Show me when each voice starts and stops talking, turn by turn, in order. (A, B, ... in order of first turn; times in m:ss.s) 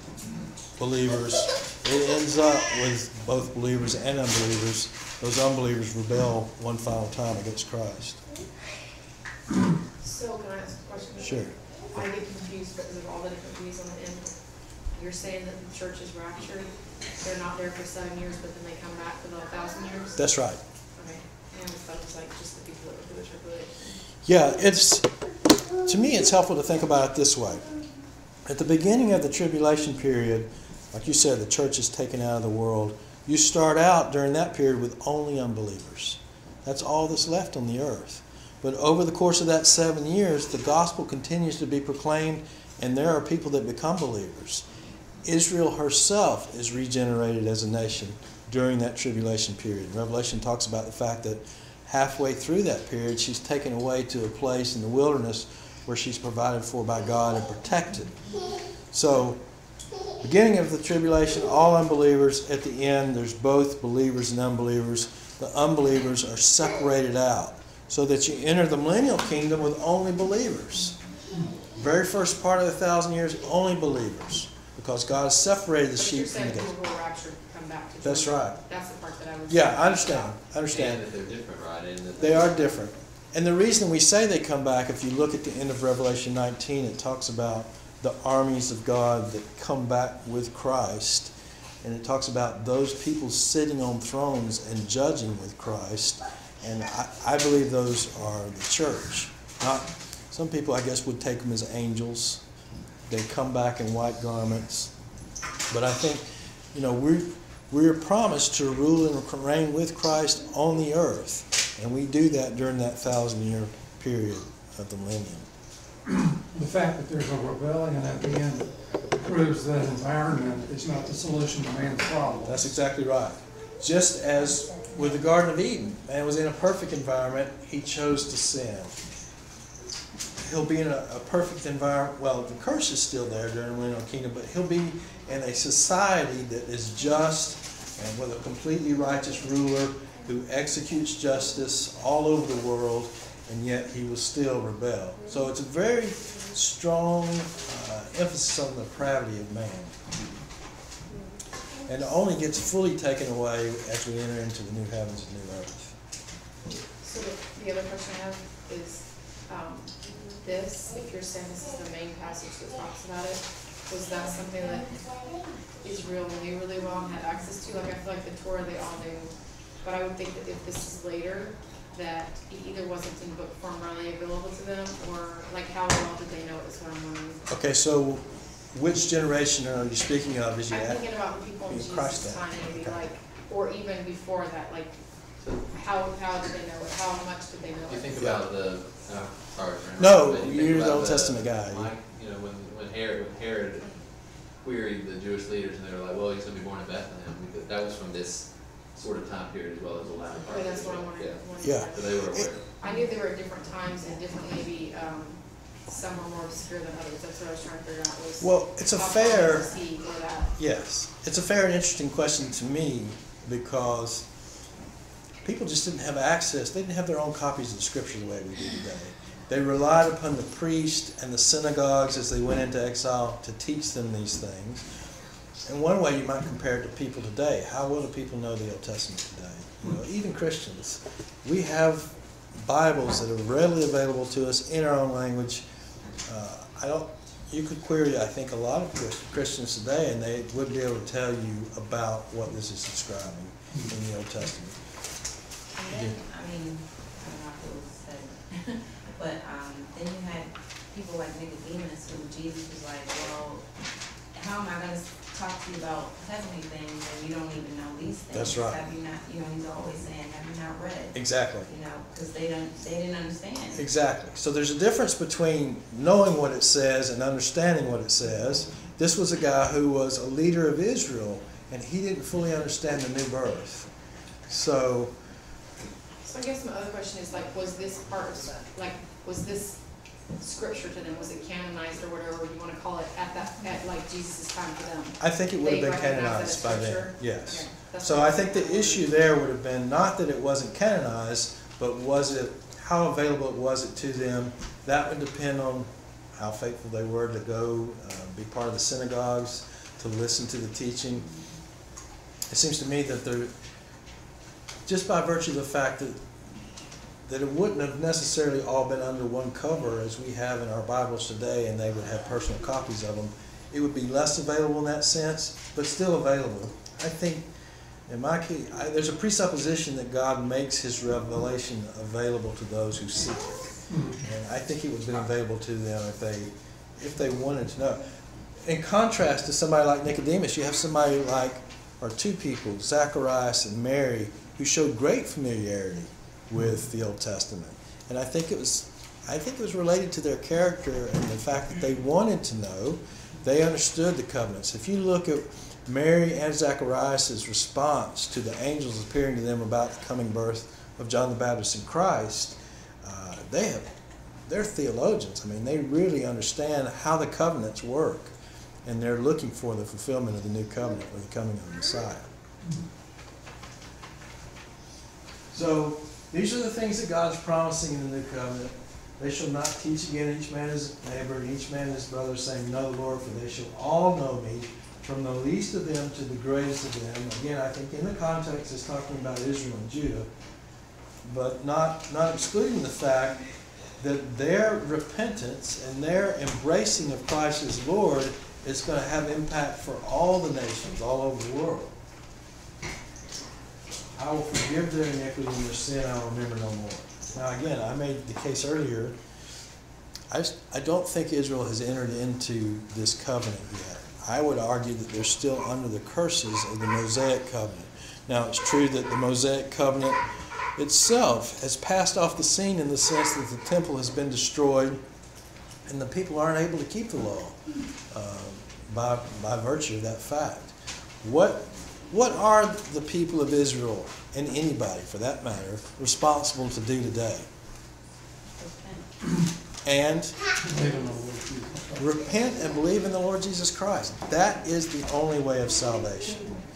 0:00.8-0:08.2 A
0:10.0-0:14.3 B
0:11.2-0:12.0 A
0:14.9-0:20.2 B
0:20.2-0:20.6 A
0:21.0-0:23.8 B
0:24.2-0:25.1 A
0:25.8-0:27.6 A
0:28.4-0:44.6 A
0:45.2-0:58.2 A
0:58.9-0:59.4 A
1:00.2-1:10.9 A
1:11.7-1:16.7 A
1:16.0-1:20.3 B
1:18.0-1:18.6 A
1:19.5-1:21.3 A
1:20.7-1:22.7 C
1:22.2-1:42.4 A
1:43.1-1:44.9 A
1:45.7-1:55.5 A
1:56.1-2:02.8 D
2:02.4-2:08.9 A
2:10.4-2:29.9 A
2:31.9-2:35.9 A
2:37.0-2:45.0 B
2:45.8-2:57.4 B
2:57.5-3:01.0 A
3:00.7-3:05.0 B
3:01.7-3:03.0 A
3:05.7-3:08.2 B
3:07.9-3:14.0 C
3:08.2-3:08.4 A
3:10.0-3:11.9 A
3:14.5-3:22.6 C
3:20.5-3:30.5 B
3:21.6-3:22.5 A
3:28.4-3:29.7 A
3:30.6-3:34.2 A
3:35.4-3:44.8 A
3:45.6-3:55.6 A
3:56.2-4:04.8 A
4:05.8-4:13.6 E
4:05.9-4:06.2 A
4:14.3-4:23.8 E
4:18.3-4:18.8 A
4:21.1-4:21.7 A
4:23.7-4:33.9 A
4:34.5-4:35.1 A
4:36.2-4:39.8 B
4:40.4-4:49.0 B
4:45.2-5:01.3 A
5:02.5-5:03.5 A
5:04.8-5:06.2 A
5:07.3-5:17.5 A
5:18.1-5:28.0 A
5:23.9-5:24.2 D
5:28.6-5:53.9 A
5:54.5-5:58.3 A
5:58.8-6:02.3 A
6:05.5-6:20.3 A
6:21.2-6:23.4 A
6:24.0-6:31.9 A
6:34.2-6:39.2 A
6:40.3-6:50.2 A
6:50.8-6:55.0 A
6:55.9-6:57.6 A
6:58.1-7:07.5 A
7:08.6-7:09.1 E
7:09.8-7:10.4 A
7:10.6-7:12.0 D
7:12.0-7:16.4 A